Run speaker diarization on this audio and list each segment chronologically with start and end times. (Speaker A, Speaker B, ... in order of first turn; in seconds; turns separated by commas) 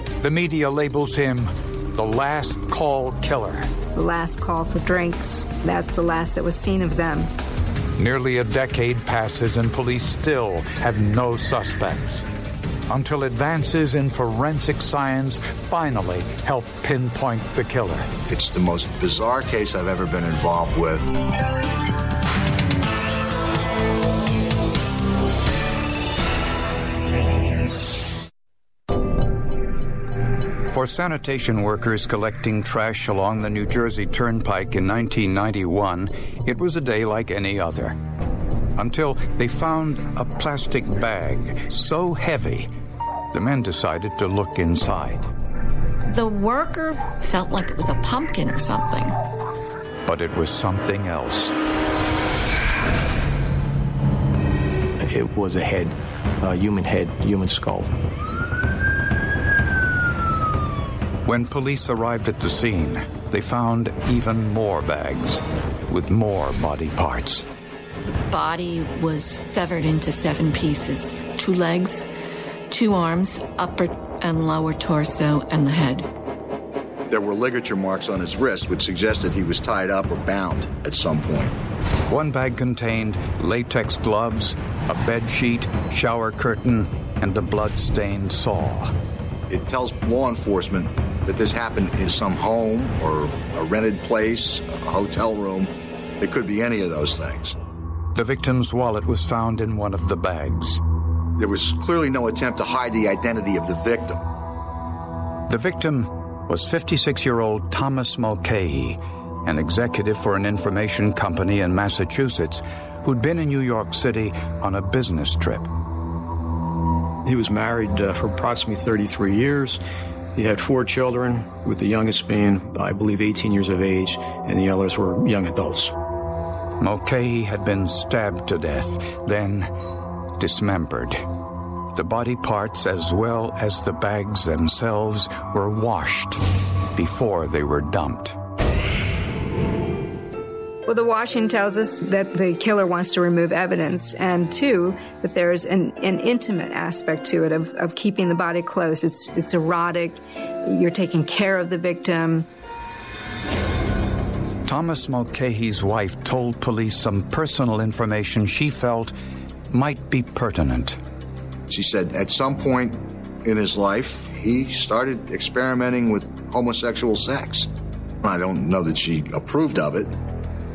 Speaker A: 0.2-3.7, Speaker B: 3.9-7.3, Speaker A: 8.0-12.3, Speaker A: 12.9-18.1, Speaker C: 18.3-21.1, Speaker A: 30.7-38.0, Speaker A: 38.8-42.7, Speaker A: 43.3-45.3, Speaker D: 46.1-49.2, Speaker A: 50.1-51.6, Speaker E: 55.0-57.9, Speaker A: 61.2-67.5, Speaker D: 68.3-72.1, Speaker D: 72.7-76.1, Speaker C: 77.1-81.5, Speaker A: 82.1-88.9, Speaker C: 89.5-95.7, Speaker C: 96.2-97.5, Speaker A: 98.2-100.8, Speaker C: 101.4-104.2, Speaker A: 105.5-115.7, Speaker F: 117.2-119.8, Speaker F: 120.3-125.9, Speaker A: 126.8-129.7, Speaker A: 130.4-131.2, Speaker A: 131.9-136.4, Speaker A: 136.9-138.4, Speaker B: 140.9-152.5, Speaker A: 154.7-159.1, Speaker A: 159.7-161.0, Speaker C: 161.7-167.7, Speaker C: 168.2-170.1